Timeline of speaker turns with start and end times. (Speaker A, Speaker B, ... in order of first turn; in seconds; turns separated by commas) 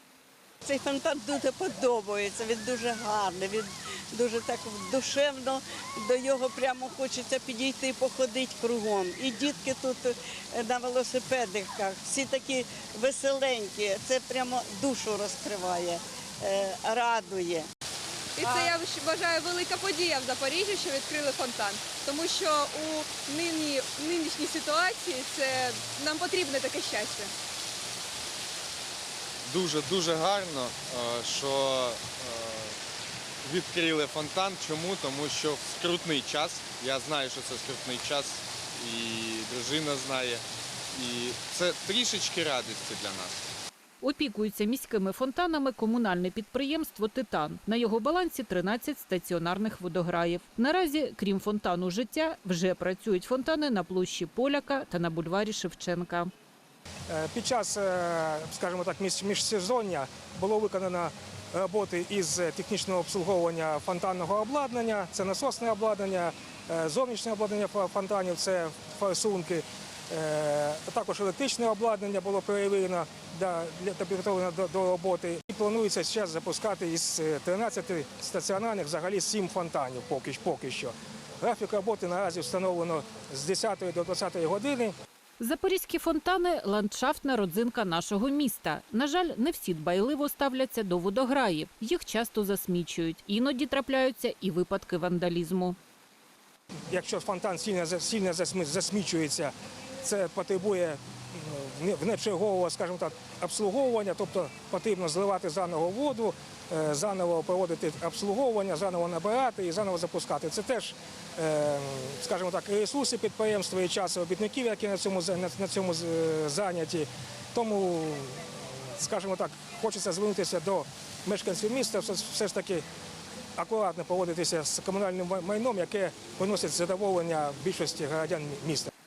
Speaker A: 0.6-17.7, Speaker B: 18.4-27.3, Speaker C: 29.4-32.7, Speaker C: 33.4-43.4, Speaker D: 44.0-56.3, Speaker E: 57.1-84.9, Speaker D: 85.4-95.8, Speaker E: 96.9-122.8, Speaker E: 123.6-128.9